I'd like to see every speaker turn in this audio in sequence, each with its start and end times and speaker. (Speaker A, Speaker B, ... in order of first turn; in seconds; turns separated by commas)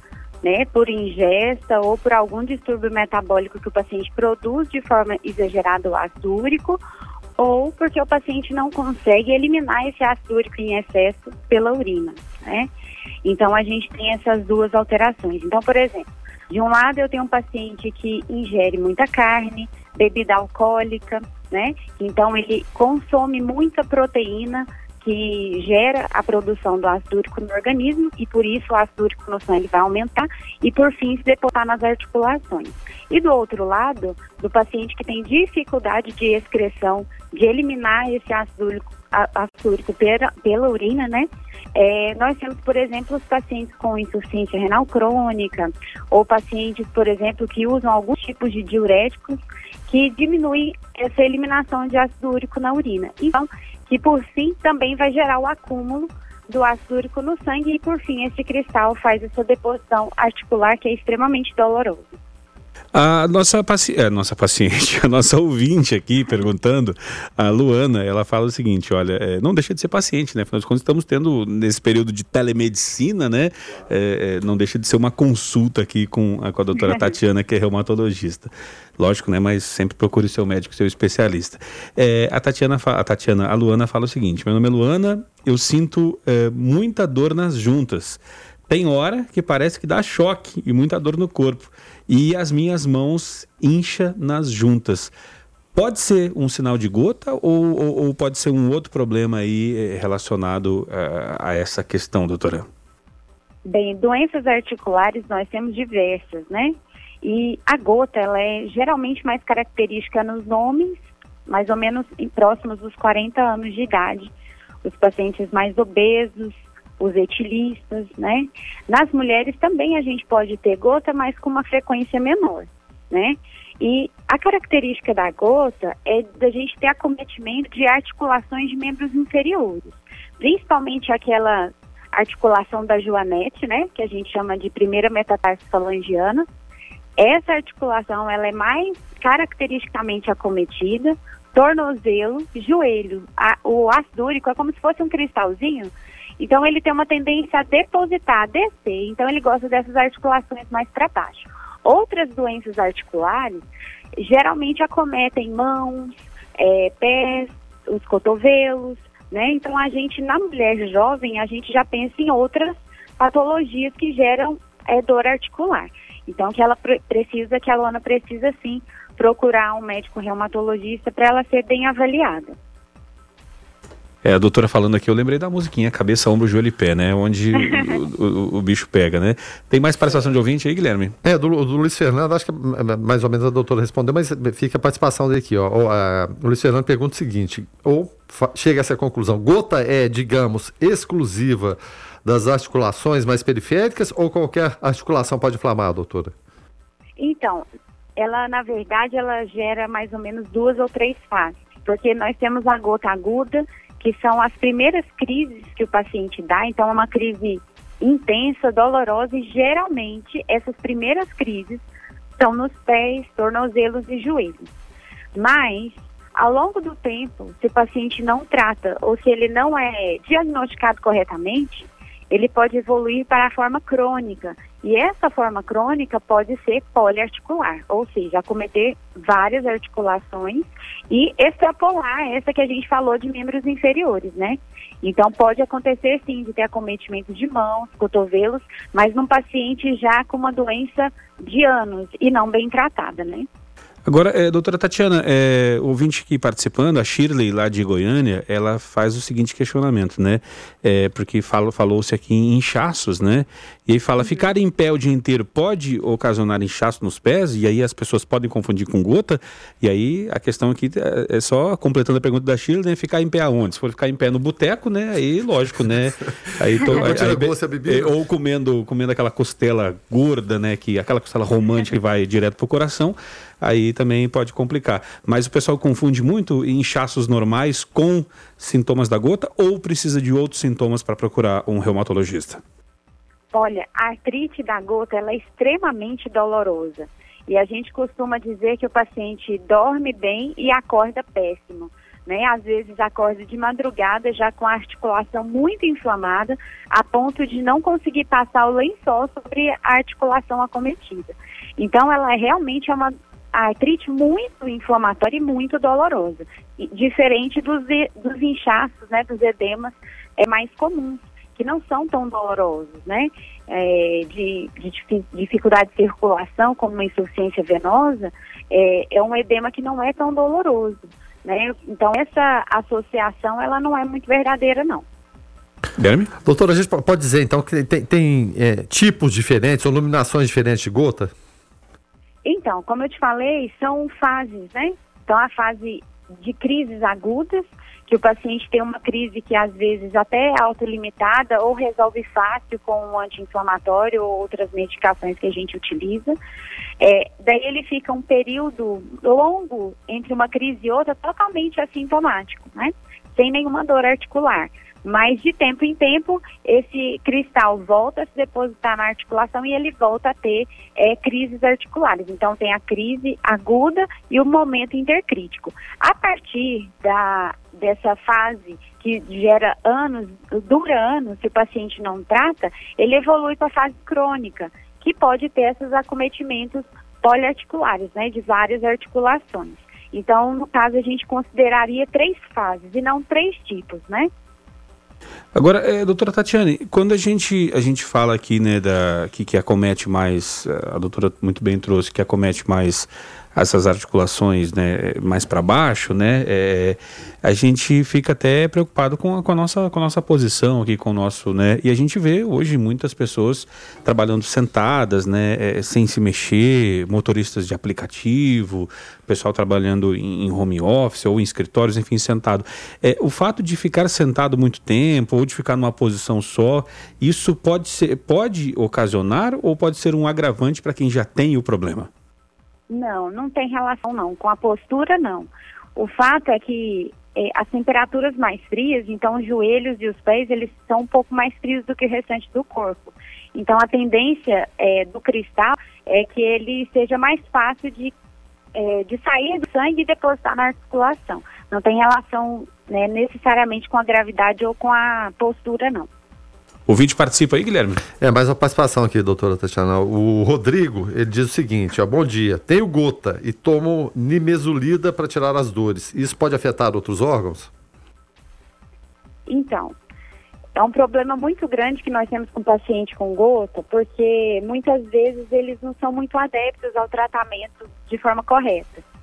Speaker A: 0.4-6.8, Speaker A: 7.4-12.7, Speaker A: 13.2-62.2, Speaker B: 62.9-95.1, Speaker B: 95.7-102.7, Speaker A: 103.7-114.3, Speaker A: 114.8-136.4, Speaker A: 137.2-153.6, Speaker A: 154.2-172.6, Speaker B: 174.2-181.1, Speaker C: 181.2-196.3, Speaker A: 197.2-211.8, Speaker A: 212.4-214.7, Speaker A: 215.3-243.5, Speaker B: 244.1-282.6, Speaker C: 266.8-268.1, Speaker A: 283.5-325.0, Speaker B: 326.0-326.3, Speaker C: 326.4-331.3, Speaker A: 332.4-346.4, Speaker A: 347.0-384.3, Speaker B: 385.5-422.1, Speaker A: 422.9-438.1, Speaker A: 438.7-446.1, Speaker B: 446.9-448.0, Speaker C: 448.2-457.7, Speaker A: 459.5-459.9, Speaker A: 460.8-469.0